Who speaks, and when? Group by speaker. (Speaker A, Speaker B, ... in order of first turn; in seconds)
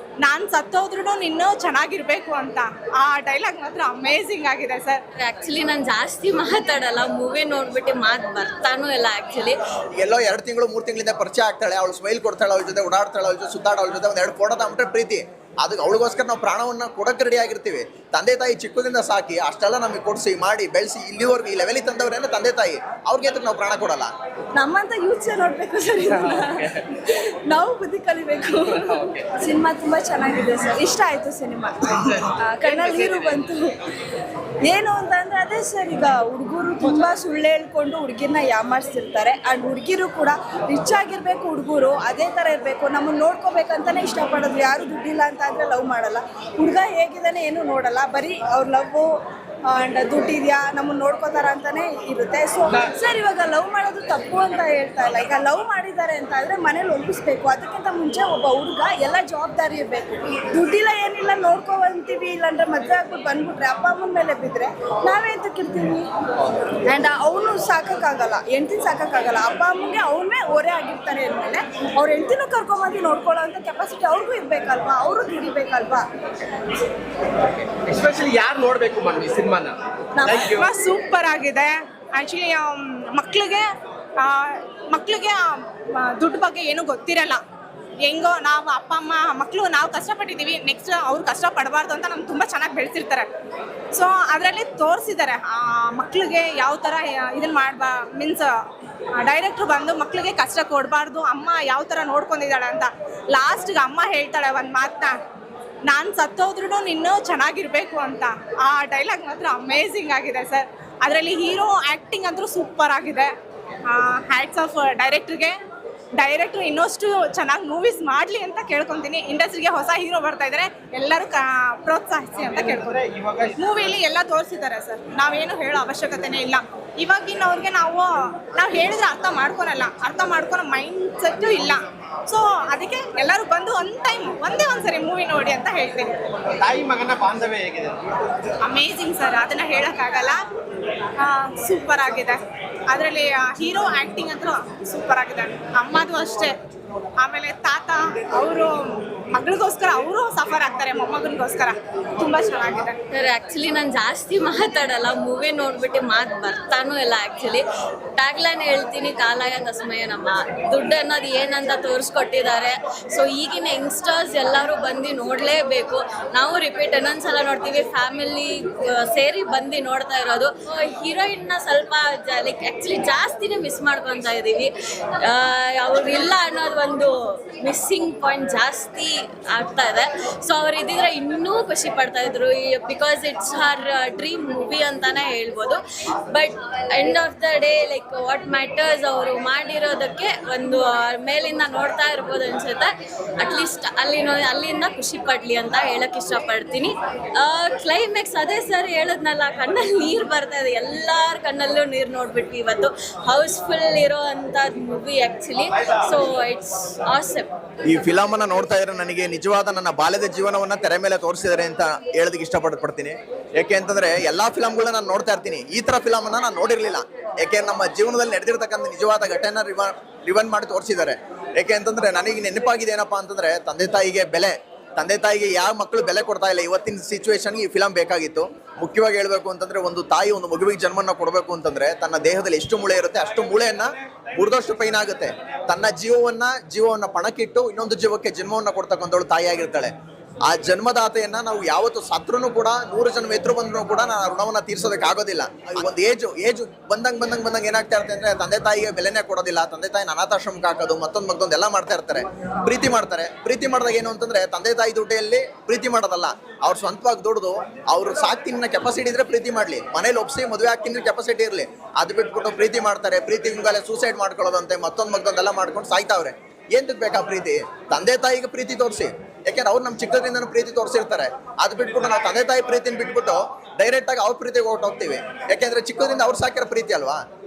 Speaker A: 0.2-5.0, 80.5-83.7, 84.2-87.4, 88.0-93.3, 93.9-98.5, 99.1-105.2, 105.8-113.3, 113.8-115.5, 116.2-136.2, 138.6-140.4, 141.2-146.5, 147.2-153.0
Speaker B: 5.2-9.6, 153.1-157.6, 158.2-185.8, 186.3-207.5
Speaker C: 10.0-24.1, 207.8-239.9, 240.5-277.2
Speaker D: 24.5-33.7, 34.6-49.1, 49.7-66.1, 66.8-76.0, 80.2-80.5
Speaker E: 32.8-33.2, 77.8-80.6, 122.5-123.6, 136.6-138.2